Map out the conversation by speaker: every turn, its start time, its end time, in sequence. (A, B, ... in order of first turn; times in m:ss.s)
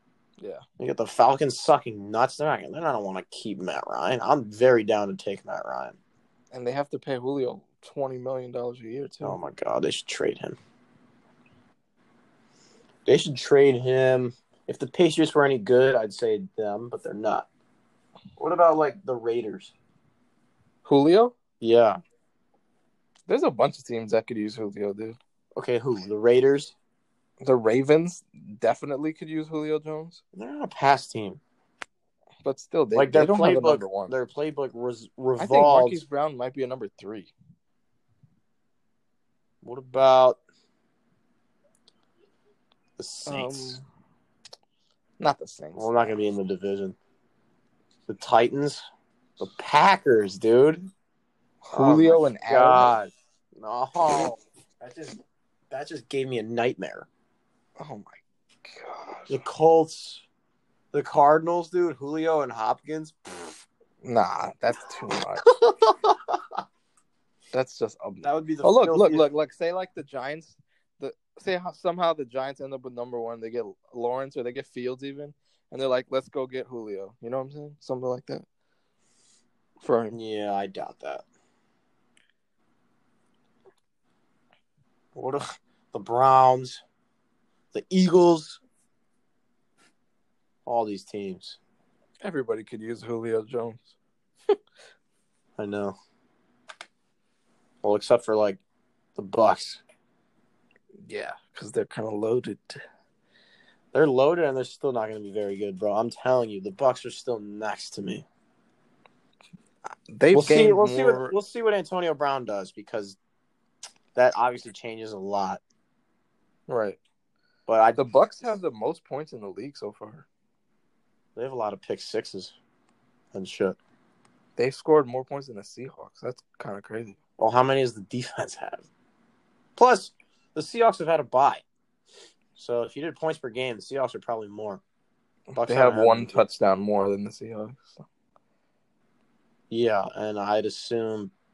0:00.8-0:06.0 A
0:06.5-0:09.4 B
0:09.2-0:10.6 A
0:13.0-0:17.5 A
0:18.4-0:19.7 A
0:20.8-0:21.3 B
0:21.6-0:22.0 A
0:23.3-0:25.2 B
0:25.6-0:26.7 A
0:27.4-0:30.2 B
0:30.3-0:31.4 A
0:32.4-0:34.1 B
0:32.9-0:36.0 A
0:35.4-0:37.3 B
0:39.6-0:40.4 A
0:43.0-0:43.8 A
0:43.2-0:43.8 B
0:45.2-0:46.1 B
0:45.7-0:47.0 A
0:48.1-0:48.8 A
0:49.4-0:50.9 A
0:51.6-0:52.9 B
0:51.7-0:55.2 A
0:55.7-0:57.1 A
0:57.8-0:59.4 B
0:59.3-1:00.2 A
1:00.9-1:03.1 A
1:04.0-1:05.5 B
1:05.4-1:06.4 A
1:07.5-1:18.4 B
1:08.2-1:09.3 A
1:19.8-1:20.2 B
1:20.1-1:21.2 A
1:25.1-1:26.8 A
1:27.7-1:28.6 A
1:30.6-1:31.6 A
1:32.2-1:33.9 B
1:35.6-1:35.9 A
1:37.8-1:38.6 A
1:39.2-1:39.8 A
1:41.0-1:42.8 B
1:43.9-1:48.2 A
1:49.9-1:51.3 B
1:50.3-1:53.2 A
1:54.1-1:55.6 A
1:56.7-1:57.0 B
1:57.7-1:58.0 A
1:58.0-2:00.2 B
2:01.4-2:02.5 A
2:03.3-2:03.8 A
2:04.6-2:07.2 B
2:07.4-2:08.9 A
2:09.8-2:11.6 A
2:12.6-2:14.8 A
2:15.5-2:18.0 B
2:15.5-2:16.4 A
2:19.7-2:21.3 A